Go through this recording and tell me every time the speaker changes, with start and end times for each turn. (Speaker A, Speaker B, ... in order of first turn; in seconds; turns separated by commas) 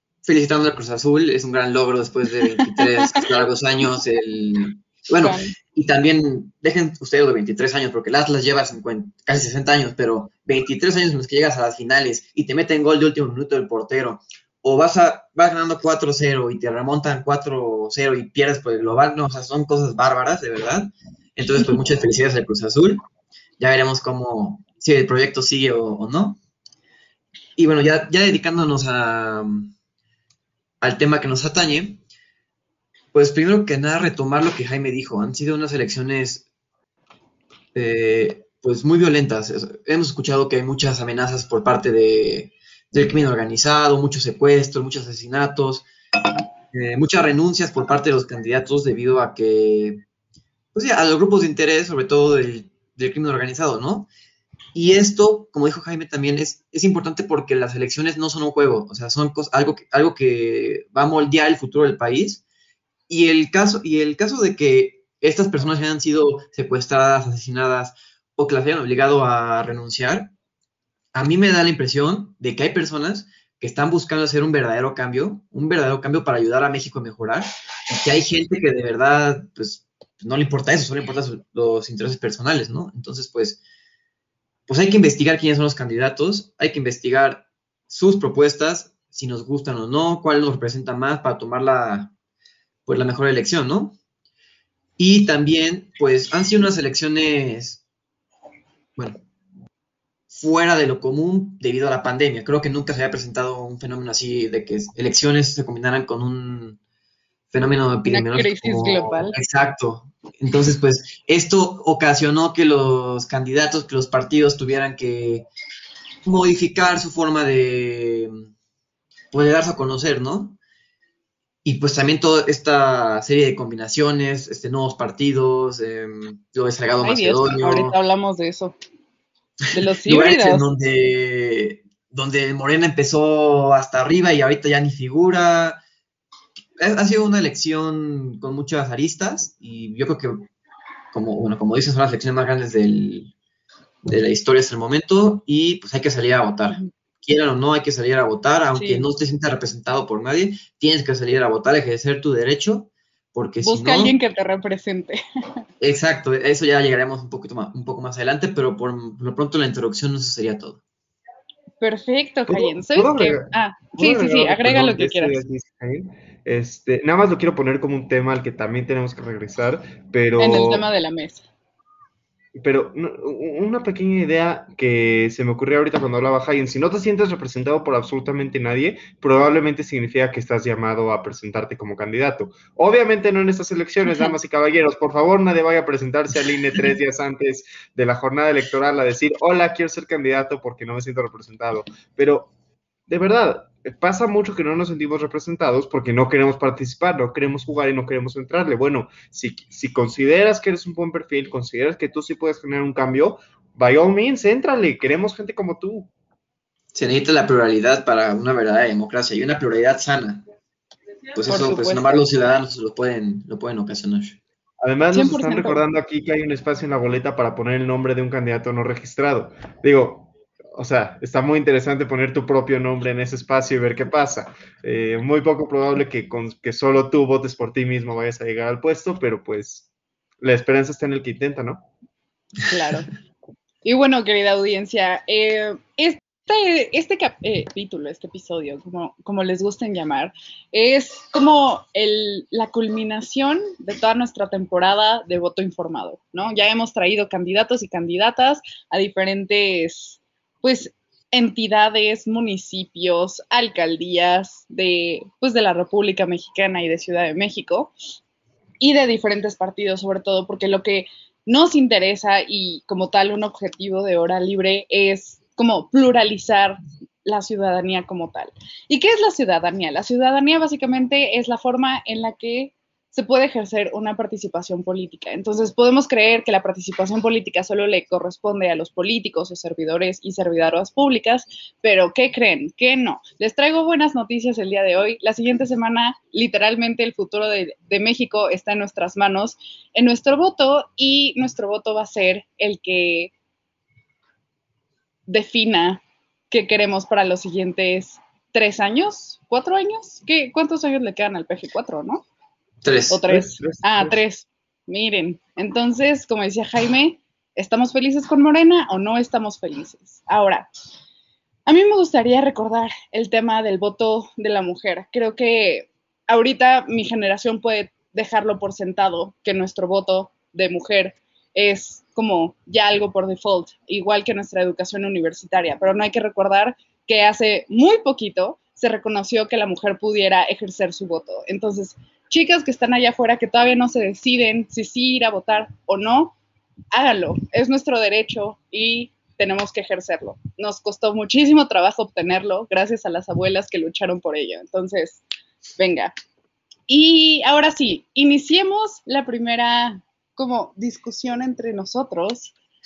Speaker A: 0.2-23.0, Speaker B: 2.6-3.2, Speaker B: 5.2-5.5, Speaker A: 23.6-26.4, Speaker A: 27.6-29.7, Speaker A: 30.8-32.0, Speaker A: 33.1-36.4, Speaker A: 37.7-45.9, Speaker A: 46.7-50.0, Speaker A: 50.7-54.1, Speaker A: 54.7-62.4, Speaker A: 63.1-70.3, Speaker A: 71.1-83.6, Speaker A: 84.7-92.1, Speaker A: 92.8-94.0, Speaker A: 95.0-97.8, Speaker A: 100.3-106.8, Speaker A: 107.5-115.5, Speaker B: 108.1-109.4, Speaker A: 116.2-118.5, Speaker A: 119.3-120.6, Speaker A: 121.6-128.0, Speaker B: 127.0-128.8, Speaker B: 129.7-130.7, Speaker A: 130.0-135.8, Speaker A: 136.8-140.5, Speaker A: 141.1-143.3, Speaker A: 144.1-154.2, Speaker B: 148.8-149.1, Speaker B: 153.6-155.2, Speaker A: 155.8-160.8, Speaker B: 161.8-165.4, Speaker C: 162.5-170.8, Speaker B: 170.4-171.4, Speaker C: 172.6-192.5, Speaker C: 193.1-206.1, Speaker A: 206.9-210.4, Speaker A: 211.3-214.4, Speaker B: 211.5-212.2, Speaker C: 214.8-229.9, Speaker B: 215.1-215.8, Speaker C: 230.4-231.9, Speaker B: 232.7-233.1, Speaker B: 233.8-257.9, Speaker B: 258.8-293.3, Speaker B: 295.3-302.2, Speaker A: 302.8-303.2, Speaker B: 303.1-310.7, Speaker C: 303.3-304.2, Speaker B: 311.6-336.4, Speaker B: 336.9-345.2, Speaker B: 345.8-346.1, Speaker B: 346.9-352.5